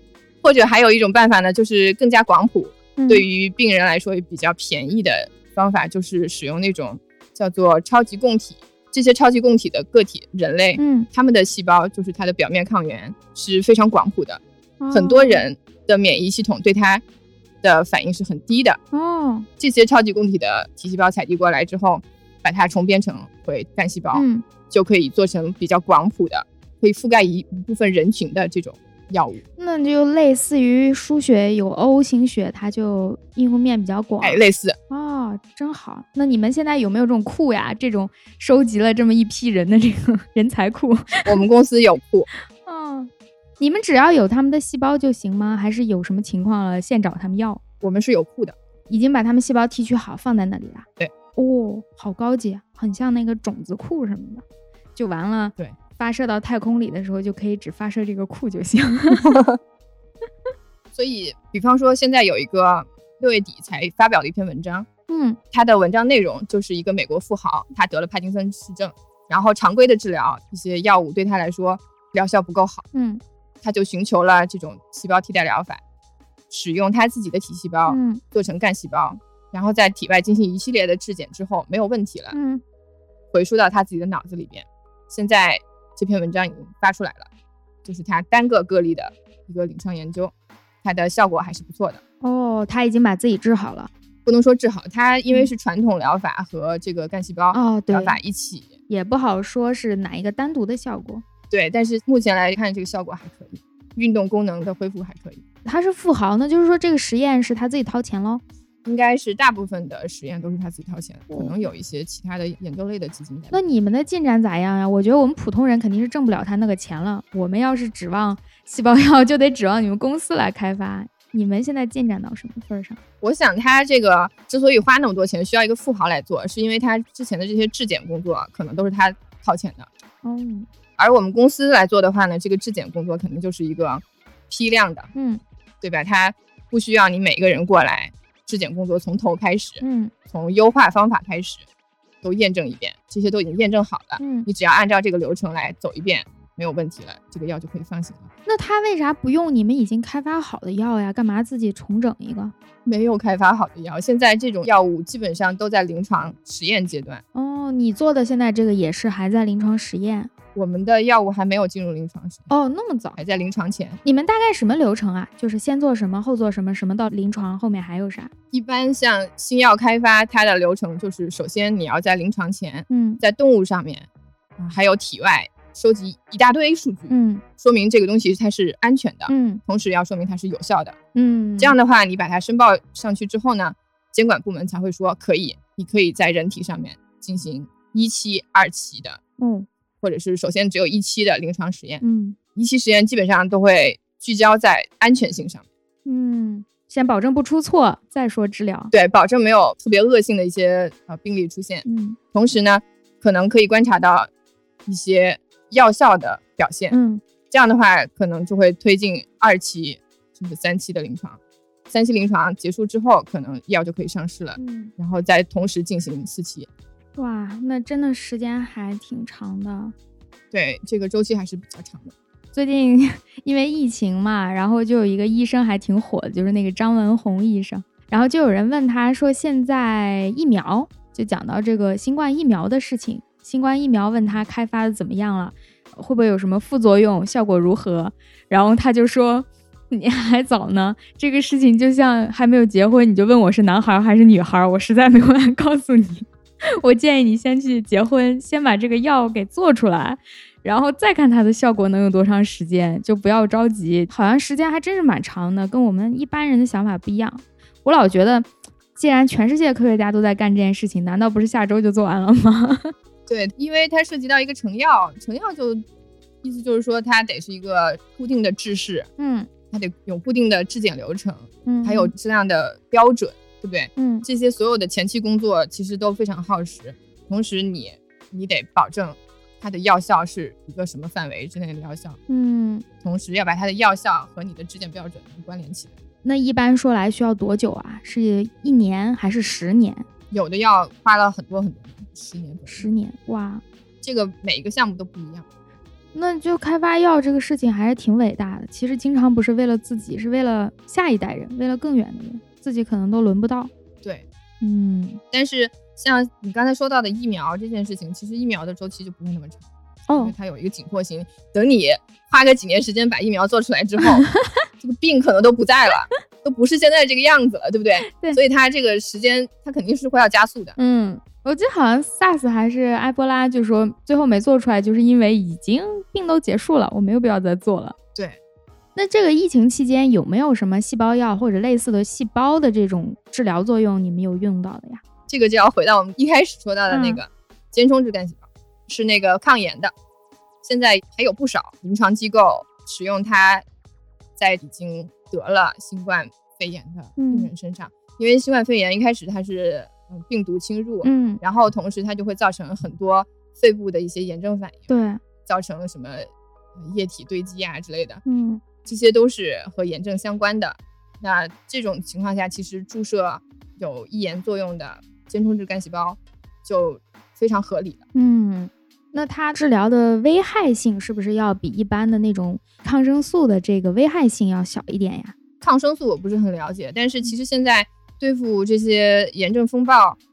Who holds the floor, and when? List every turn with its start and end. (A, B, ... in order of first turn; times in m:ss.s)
0:00.4-0:17.0 A
0:03.0-0:03.2 B
0:10.8-0:11.1 B
0:14.8-0:15.4 B
0:17.6-0:18.8 A
0:18.9-0:19.5 B
0:19.6-0:29.4 A
0:24.1-0:24.4 B
0:29.6-0:41.4 B
0:34.2-0:34.8 A
0:41.2-0:42.3 A
0:42.6-0:47.6 B
0:47.8-0:48.6 A
0:48.9-0:54.4 B
0:55.0-0:59.4 B
0:59.1-0:59.6 A
1:00.9-1:04.9 A
1:05.1-1:05.4 B
1:05.5-1:12.8 A
1:12.9-1:13.2 B
1:13.6-1:15.8 A
1:16.5-1:22.3 A
1:17.9-1:18.2 B
1:22.3-1:22.6 B
1:23.3-1:27.3 A
1:27.8-1:30.3 A
1:30.8-1:32.0 A
1:32.2-1:33.9 B
1:34.2-1:38.7 A
1:37.5-1:38.2 B
1:38.9-1:41.2 B
1:41.5-1:45.4 A
1:45.6-1:48.4 B
1:48.8-1:53.6 A
1:51.3-1:51.6 B
1:53.5-2:03.0 B
2:03.2-2:09.9 A
2:10.2-2:10.7 B
2:11.0-2:15.1 A
2:15.1-2:15.4 B
2:15.8-2:21.6 A
2:19.8-2:20.1 B
2:22.2-2:28.3 A
2:24.2-2:24.5 B
2:28.4-2:32.5 B
2:32.8-2:37.2 A
2:37.3-2:40.3 B
2:40.5-2:42.5 A
2:42.5-2:43.2 B
2:43.2-2:44.0 A
2:44.0-2:48.3 B
2:48.5-3:01.0 A
2:52.9-2:53.2 B
2:57.1-2:57.4 B
2:59.3-2:59.6 B
3:01.1-3:01.8 B
3:01.6-3:09.2 A
3:09.4-3:09.7 B
3:10.0-3:12.0 A
3:12.0-3:12.4 B
3:12.5-3:15.6 A
3:16.0-3:18.9 B
3:18.9-3:24.3 A
3:21.8-3:22.2 B
3:24.8-3:26.9 A
3:26.9-3:27.2 B
3:27.5-3:31.4 A
3:31.9-3:36.7 A
3:34.6-3:34.9 B
3:37.2-3:39.9 B
3:40.5-3:42.1 A
3:42.5-4:06.3 B
4:06.8-4:22.9 B
4:23.3-4:25.8 A
4:26.4-4:29.1 A
4:29.2-4:29.5 B
4:29.7-4:42.2 A
4:31.6-4:32.1 B
4:34.0-4:34.2 B
4:42.3-4:42.8 B
4:43.0-4:45.9 A
4:46.2-4:50.0 B
4:50.3-4:52.9 A
4:52.7-4:53.6 B
4:54.0-4:55.4 A
4:56.1-5:03.7 B
5:04.6-5:05.2 B
5:05.3-5:09.6 A
5:10.1-5:10.3 B
5:10.2-5:14.3 A
5:14.8-5:20.8 A
5:18.0-5:18.4 B
5:20.8-5:28.0 B
5:29.0-5:35.0 B
5:35.3-5:39.9 A
5:36.9-5:37.2 B
5:40.6-5:43.6 A
5:44.4-5:54.9 A
5:47.2-5:47.5 B
5:51.0-5:51.4 B
5:54.9-5:55.2 B
5:55.4-5:58.2 A
5:58.2-5:58.6 B
5:58.8-6:08.0 A
6:08.1-6:15.3 B
6:15.6-6:20.2 A